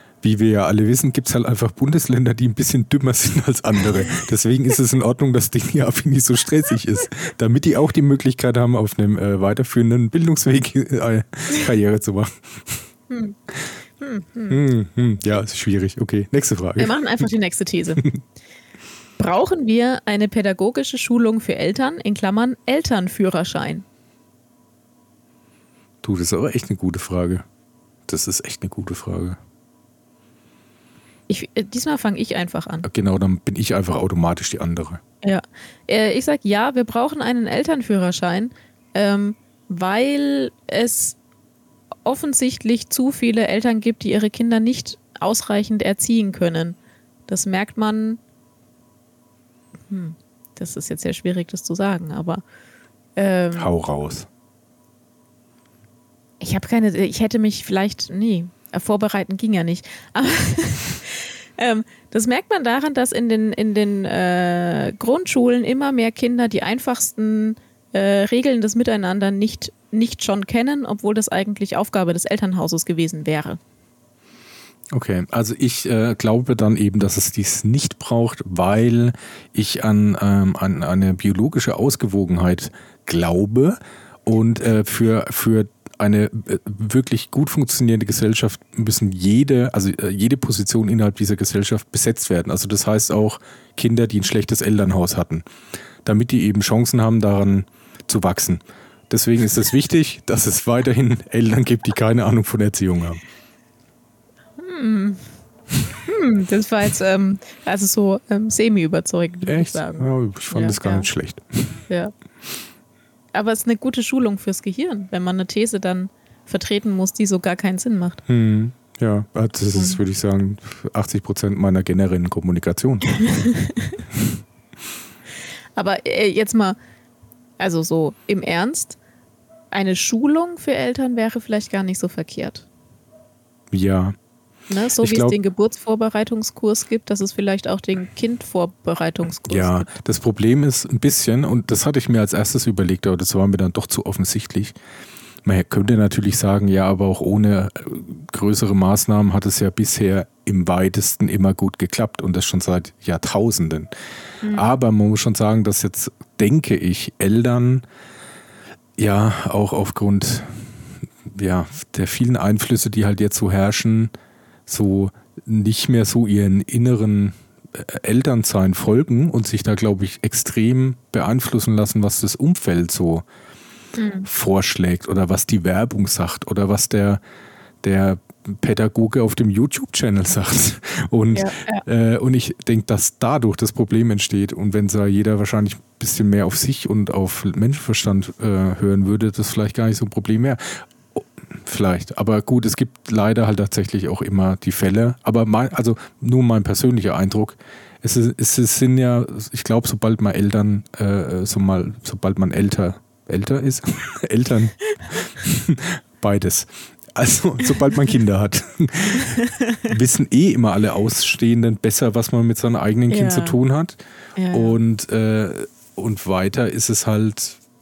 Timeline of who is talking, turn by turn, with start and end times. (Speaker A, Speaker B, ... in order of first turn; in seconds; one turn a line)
Speaker A: 0.2-12.9
Speaker B: 13.1-13.4
Speaker B: 14.0-14.6
Speaker A: 14.5-17.3
Speaker B: 16.8-18.1
Speaker B: 19.2-23.9
Speaker A: 26.0-27.4
Speaker A: 28.1-29.4
Speaker B: 31.3-32.9
Speaker A: 32.8-35.0
Speaker B: 35.2-41.2
Speaker B: 42.0-48.2
Speaker B: 49.9-52.4
Speaker B: 53.2-53.7
Speaker A: 53.6-54.3
Speaker B: 56.4-73.6
Speaker A: 74.9-95.5
Speaker A: 96.0-103.2
Speaker B: 104.6-105.3
Speaker B: 106.0-111.1
Speaker A: 109.5-111.8
Speaker B: 113.3-118.2
Speaker A: 118.3-123.2
Speaker B: 119.8-120.0
Speaker B: 123.1-124.0
Speaker B: 125.8-126.8
Speaker B: 127.6-129.0
Speaker B: 129.7-132.7
Speaker A: 133.7-134.2
Speaker B: 134.7-139.9
Speaker A: 135.0-135.4
Speaker A: 139.5-144.8
Speaker A: 145.4-153.9
Speaker B: 154.4-154.7
Speaker A: 154.5-157.8
Speaker A: 159.0-164.1
Speaker A: 164.7-173.2
Speaker B: 174.0-174.3
Speaker A: 174.3-177.2
Speaker A: 177.8-214.0
Speaker B: 181.3-181.8
Speaker B: 209.5-209.9
Speaker B: 213.1-213.6
Speaker B: 214.4-214.8
Speaker A: 214.5-217.6